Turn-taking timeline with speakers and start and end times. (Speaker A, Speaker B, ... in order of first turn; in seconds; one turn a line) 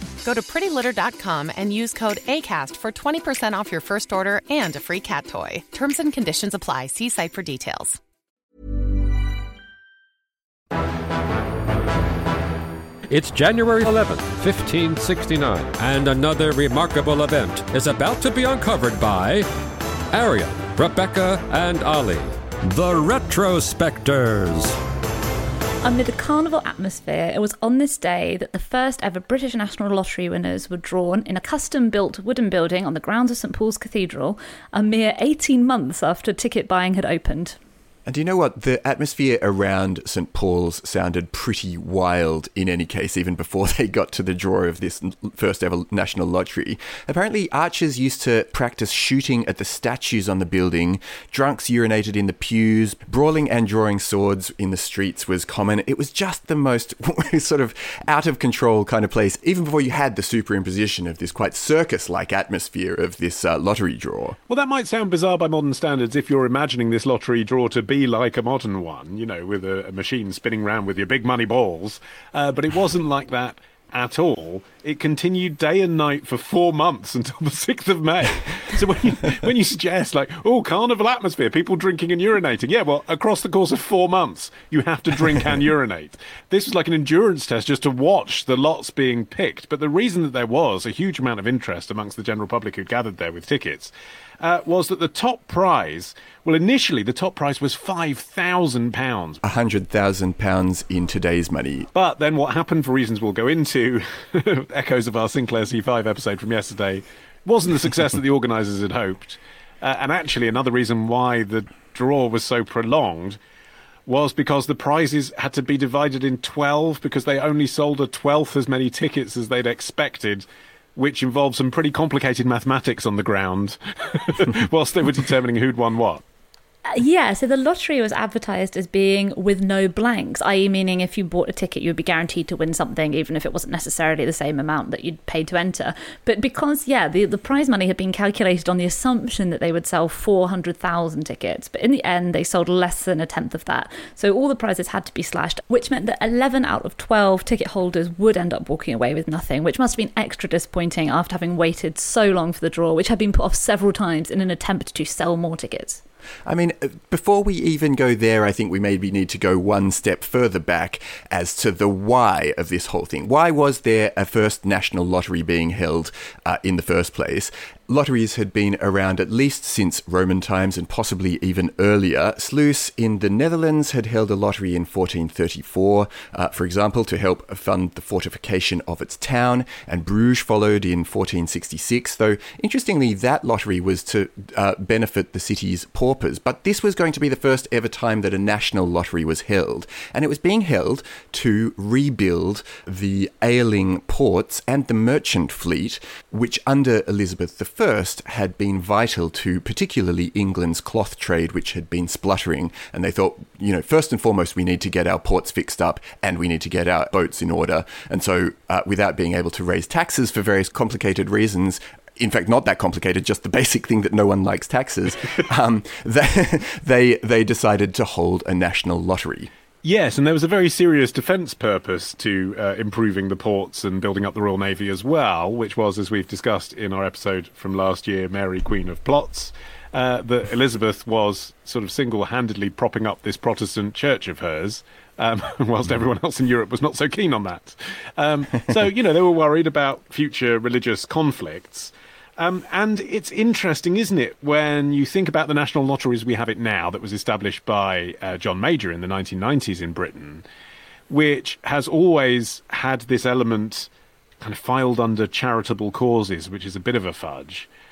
Speaker A: 0.2-8.0
Speaker B: 13.1-19.5
Speaker B: 20.1-24.8
Speaker C: 25.8-37.6
Speaker D: 38.0-64.4
Speaker E: 64.5-99.4
Speaker D: 99.4-101.9
Speaker E: 101.9-113.4
Speaker E: 114.1-126.2
Speaker C: 126.8-156.0
Speaker D: 156.4-219.5
Speaker E: 219.8-250.4
Speaker E: 251.1-253.9
Speaker E: 254.4-257.7